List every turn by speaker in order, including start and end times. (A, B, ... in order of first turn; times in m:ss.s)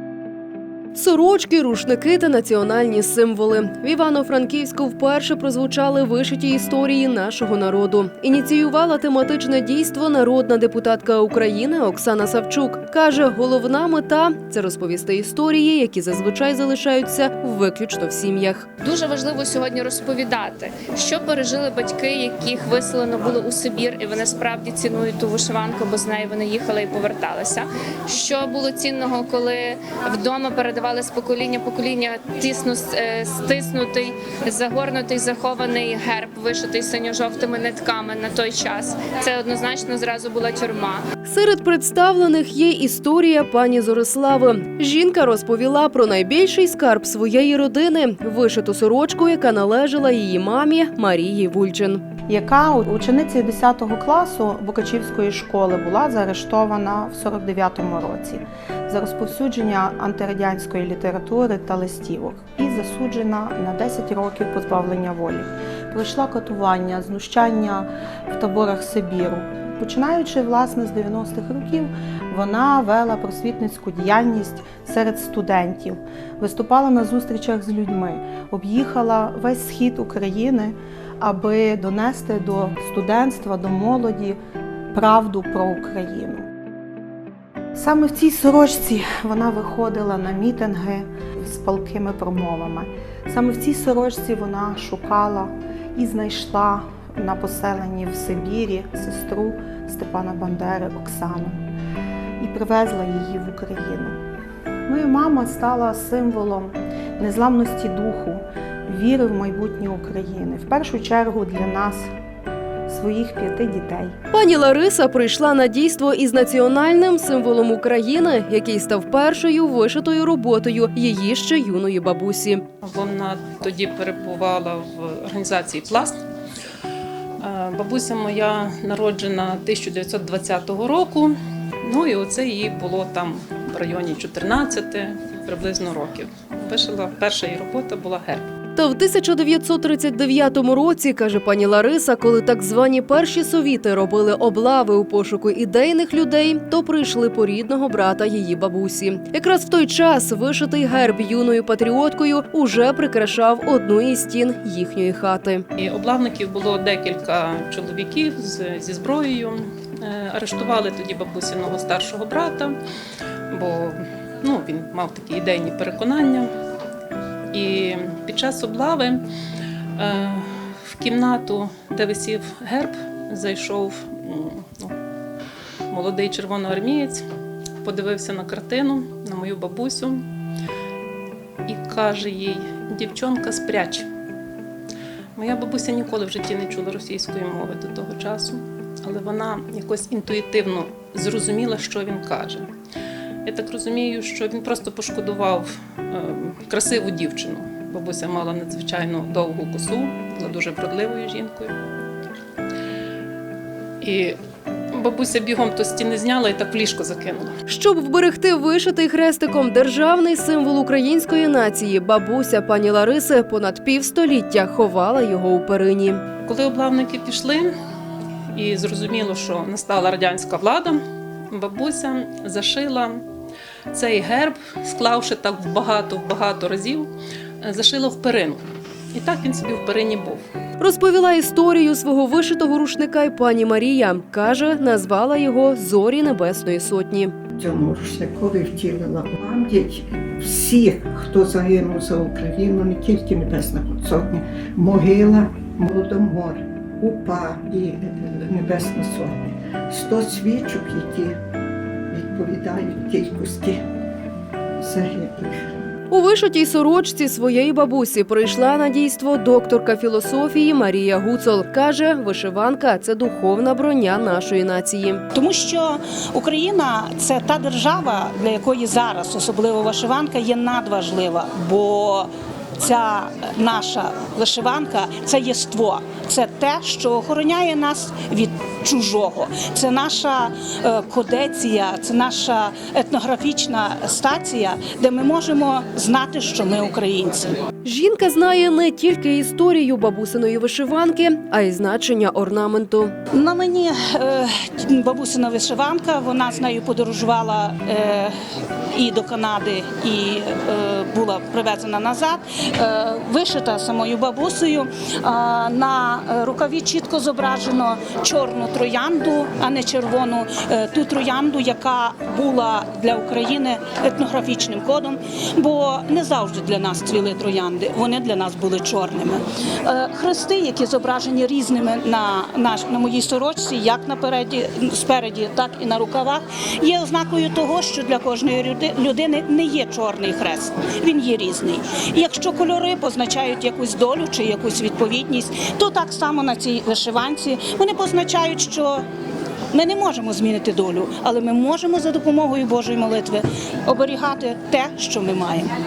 0:01.0-0:18.7 A
0:18.8-0:41.0 B
0:41.2-0:52.0 A
0:52.3-1:24.4 C
1:24.9-1:26.5 C
1:27.7-1:41.6 C
1:42.4-1:44.2 C
1:44.9-1:52.1 C
1:52.9-1:54.1 C
1:54.3-2:02.6 A
2:02.8-2:06.2 D
2:07.4-2:18.4 D
2:18.8-2:35.6 A
2:35.8-2:42.8 D
2:43.5-2:46.5 D
2:47.5-2:49.2 D
2:50.0-2:54.9 D
2:55.9-2:57.2 D
2:57.8-3:00.2 D
3:01.7-3:04.1 D
3:05.4-3:12.7 D
3:13.5-3:21.8 D
3:24.0-3:24.4 D
3:24.9-3:27.5 D
3:27.7-3:36.2 A
3:36.5-3:37.7 D
3:38.5-3:41.0 D
3:41.5-3:43.2 D
3:43.9-3:47.1 D
3:47.6-3:48.6 D
3:49.1-3:50.4 D
3:50.8-3:57.4 A
3:57.6-4:11.4 E
4:12.1-4:13.8 E
4:14.8-4:15.5 E
4:16.1-4:25.2 A
4:25.3-4:47.5 F
4:47.8-4:53.1 A
4:53.3-4:58.3 F
4:58.9-5:39.1 F
5:39.7-5:45.7 F